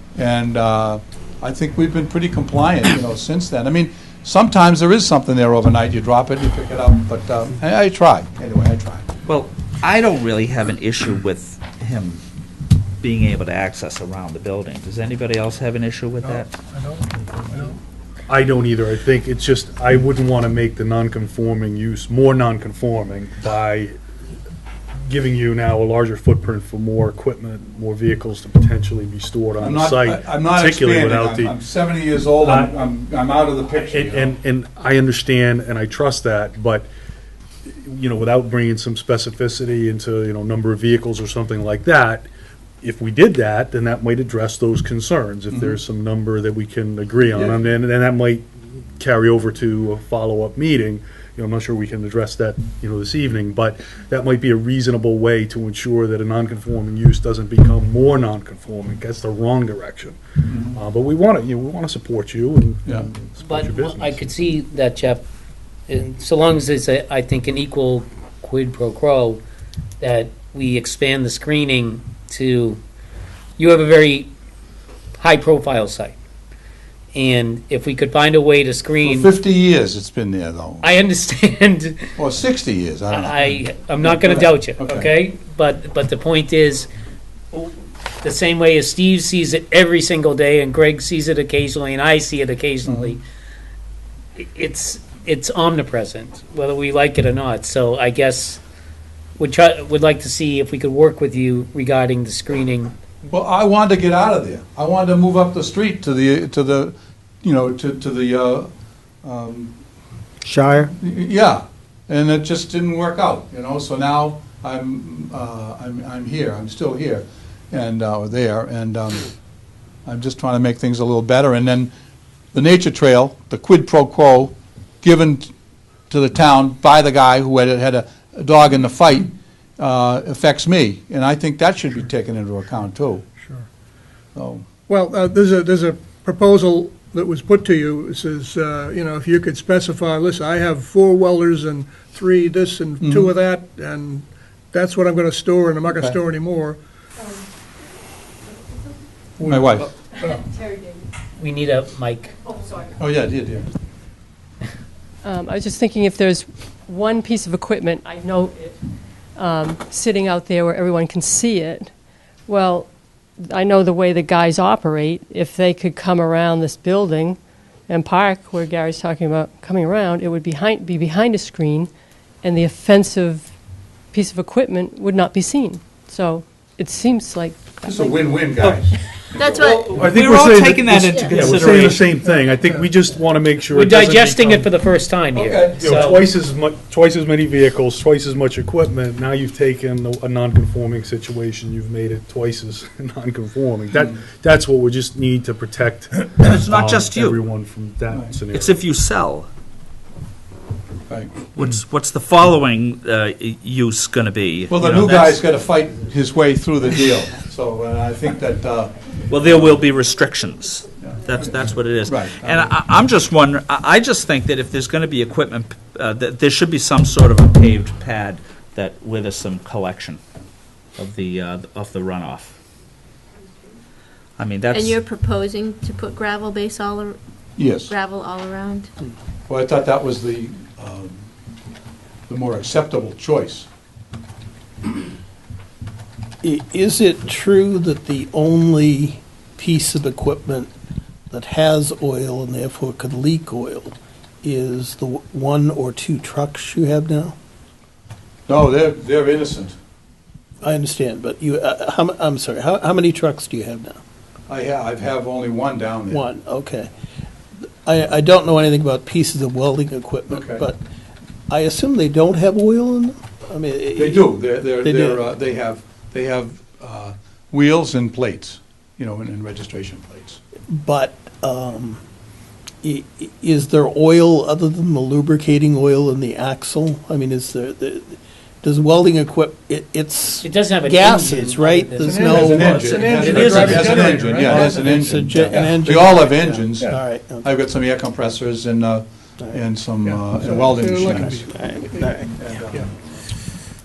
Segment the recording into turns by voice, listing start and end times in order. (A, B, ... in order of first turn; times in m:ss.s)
0:00.2-0:09.1 A
0:09.2-0:12.2 B
0:13.0-0:16.5 B
0:16.2-0:17.7 C
0:18.3-0:24.0 D
0:25.1-0:31.6 D
0:29.6-0:34.3 A
0:32.4-0:32.7 D
0:33.7-0:36.9 D
0:37.6-0:42.3 D
0:42.8-0:48.4 D
0:49.0-1:04.2 D
1:00.5-1:00.8 A
1:03.4-1:05.2 E
1:05.9-1:09.4 E
1:10.0-1:12.8 E
1:13.6-1:14.3 E
1:15.2-1:16.1 E
1:17.1-1:19.3 E
1:19.0-1:20.9 A
1:20.8-1:22.0 E
1:22.2-1:25.1 A
1:23.1-1:26.9 E
1:27.5-1:33.2 E
1:32.8-1:33.1 A
1:34.4-1:38.6 E
1:39.4-1:42.9 E
1:43.2-1:48.7 A
1:49.2-1:49.8 A
1:50.9-1:59.3 A
2:00.0-2:01.9 A
2:02.5-2:05.5 A
2:06.1-2:13.2 A
2:14.3-2:14.6 A
2:14.9-2:26.8 C
2:23.0-2:23.3 A
2:25.9-2:26.2 A
2:29.4-2:30.4 C
2:29.4-2:29.9 A
2:30.3-2:31.0 F
2:31.4-2:32.5 E
2:33.0-2:33.7 A
2:35.2-2:38.8 F
2:39.4-2:41.9 F
2:42.5-2:42.9 F
2:43.4-2:51.9 F
2:52.4-2:53.5 F
2:54.1-2:58.3 F
2:57.8-3:00.2 A
2:59.4-2:59.8 G
2:59.9-3:02.0 B
2:59.9-3:04.7 D
3:03.7-3:06.2 E
3:05.3-3:06.2 A
3:05.8-3:18.8 D
3:16.4-3:17.4 B
3:18.1-3:18.4 A
3:18.6-3:19.5 B
3:21.1-3:21.4 A
3:21.5-3:25.4 B
3:24.7-3:28.9 A
3:29.3-3:40.2 B
3:31.0-3:32.7 A
3:41.0-3:42.5 B
3:44.4-3:45.0 B
3:44.7-3:48.9 G
3:47.6-3:47.9 A
3:49.5-3:51.2 A
3:52.3-3:53.7 A
3:56.4-4:00.7 H
4:01.3-4:07.3 H
4:08.5-4:09.7 A
4:10.6-4:14.0 H
4:14.5-4:16.2 A
4:16.1-4:16.9 H
4:17.8-4:20.8 H
4:20.3-4:20.6 A
4:21.5-4:25.2 H
4:23.9-4:30.4 A
4:30.7-4:32.0 H
4:32.8-4:47.5 H
4:40.4-4:44.2 E
4:42.0-4:45.8 C
4:42.1-4:51.4 A
4:50.0-4:52.1 C
4:51.1-4:52.6 H
4:52.4-4:52.8 A